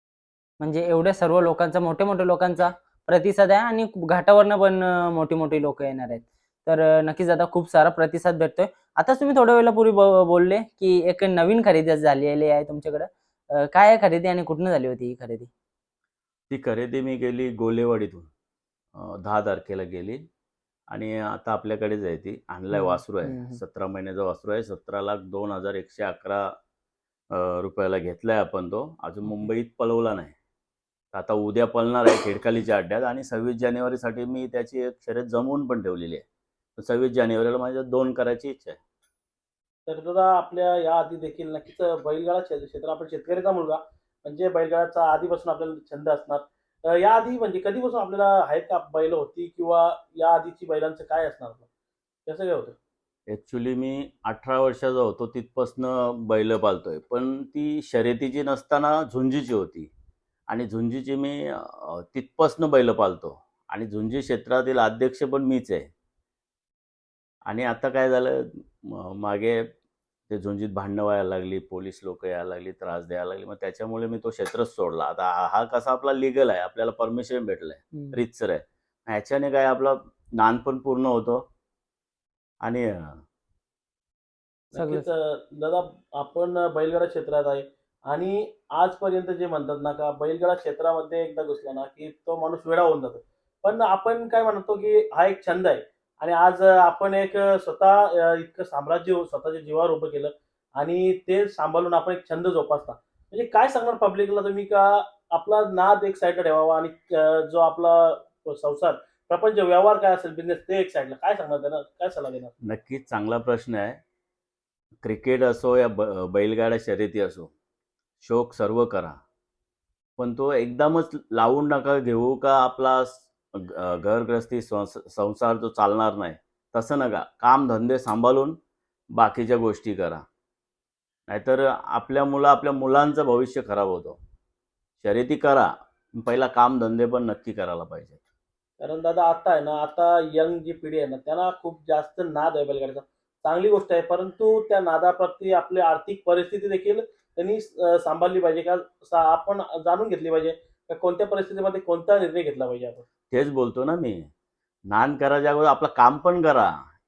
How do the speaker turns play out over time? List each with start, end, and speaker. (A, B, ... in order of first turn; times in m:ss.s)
0:00.6-0:15.5 A
0:16.5-0:18.3 B
0:19.0-0:20.3 B
0:20.9-0:26.6 B
0:22.7-0:23.6 A
0:27.3-0:30.3 B
0:31.1-0:36.2 B
0:36.8-0:38.8 B
0:39.9-0:51.7 C
0:52.3-0:52.8 C
0:53.3-0:59.9 B
1:00.5-1:05.9 B
1:07.5-1:09.7 B
1:10.3-1:21.5 B
1:22.6-1:23.2 B
1:24.7-1:52.5 C
1:24.8-1:25.1 A
1:52.6-1:54.0 B
1:55.0-1:57.5 B
1:58.2-1:59.2 B
2:00.2-2:08.6 B
2:09.2-2:10.2 B
2:11.3-2:14.2 B
2:15.0-2:18.2 B
2:18.8-2:33.0 C
2:33.3-2:34.3 B
2:34.9-2:36.8 B